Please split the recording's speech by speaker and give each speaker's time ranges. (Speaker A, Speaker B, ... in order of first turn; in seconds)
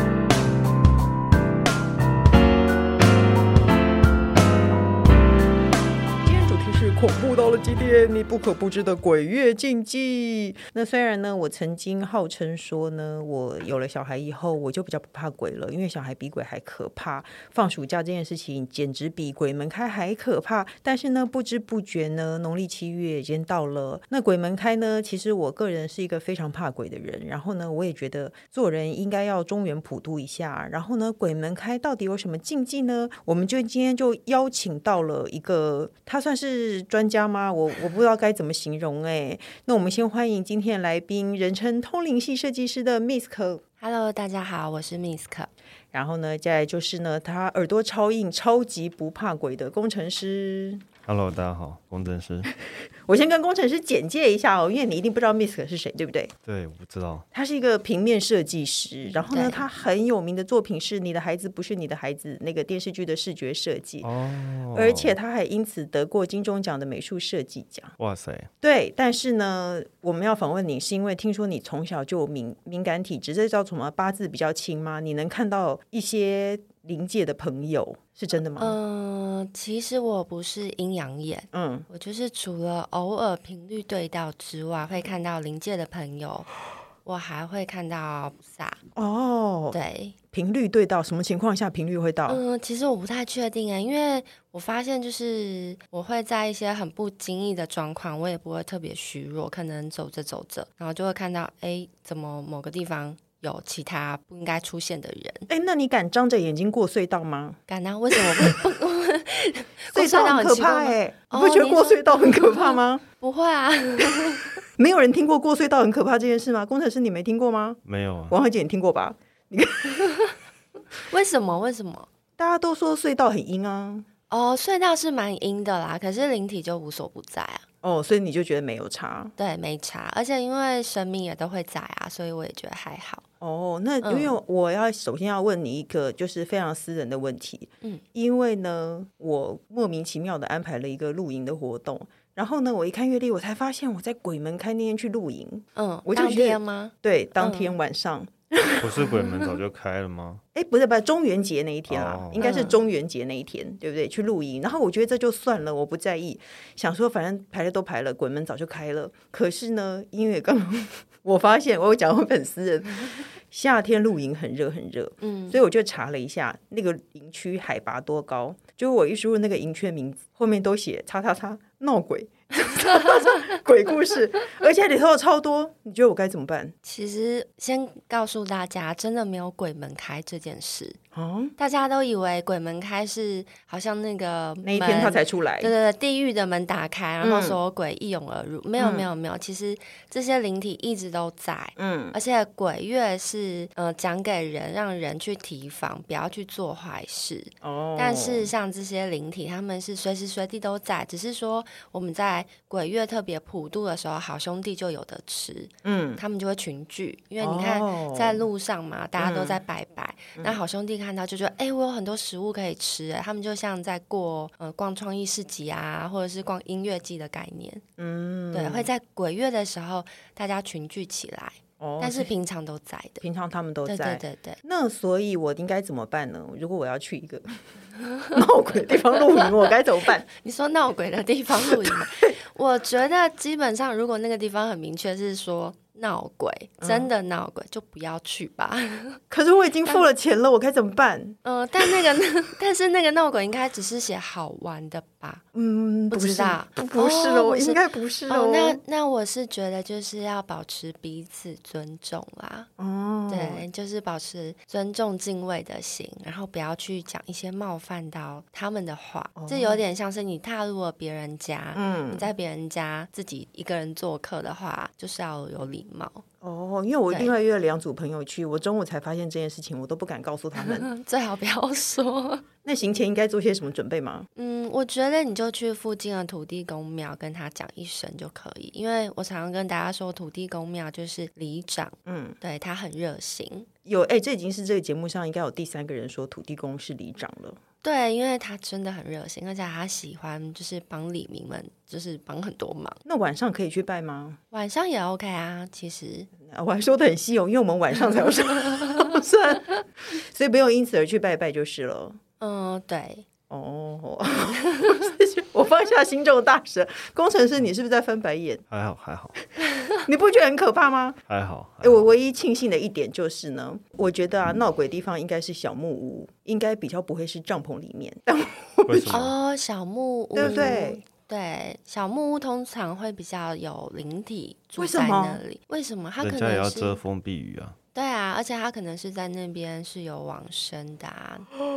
Speaker A: 6.2-43.6, 45.9-50.8, 53.1-56.3, 57.3-64.1, 64.7-67.9, 68.6-78.8, 81.5-81.9, 89.0-89.8, 90.3-92.4, 105.5-107.6, 108.1-108.6, 109.9-113.0, 114.8-120.2, 122.4-124.1, 127.8-129.3, 133.4-149.1, 150.5-176.7, 181.1-181.5, 184.6-185.7, 187.2-187.6, 188.8-189.1, 191.8-192.2, 197.6-198.5, 205.8-206.2, 207.4-208.4, 209.2-209.6, 218.0-218.9, 221.8-222.3, 223.2-227.6, 228.3-230.2, 231.6-232.3, 236.8-237.1, 239.3-242.0, 245.5-248.8, 252.8-253.7, 259.4-259.8, 261.8-262.3, 266.4-270.9, 272.6-274.3, 282.1-282.4, 283.9-287.6, 293.1-294.4, 296.4-302.2, 303.5-308.6, 310.0-311.2, 311.8-319.2, 320.4-321.0, 324.8-325.4
Speaker B: 43.8-45.5, 59.3-59.6, 78.6-86.5, 87.0-88.8, 89.7-90.2, 92.3-105.5, 107.7-114.6, 121.1-122.1, 124.3-127.6, 129.4-133.2, 134.0-134.3, 145.8-147.8, 152.4-152.8, 165.2-165.6, 176.8-181.0, 181.6-217.8, 218.5-223.2, 223.9-224.6, 230.2-239.2, 241.4-245.4, 246.1-252.7, 253.3-266.2, 270.6-272.5, 274.4-283.7, 287.8-293.0, 294.5-296.3, 302.4-303.3, 304.7-305.0, 319.1-327.0, 327.9-331.5
Speaker C: 51.1-52.5, 56.5-57.2, 64.0-65.2, 68.0-68.5, 117.8-118.3, 148.8-150.4, 151.9-152.4, 308.7-309.4, 311.3-312.1, 318.9-319.3, 320.4-320.8, 326.2-327.8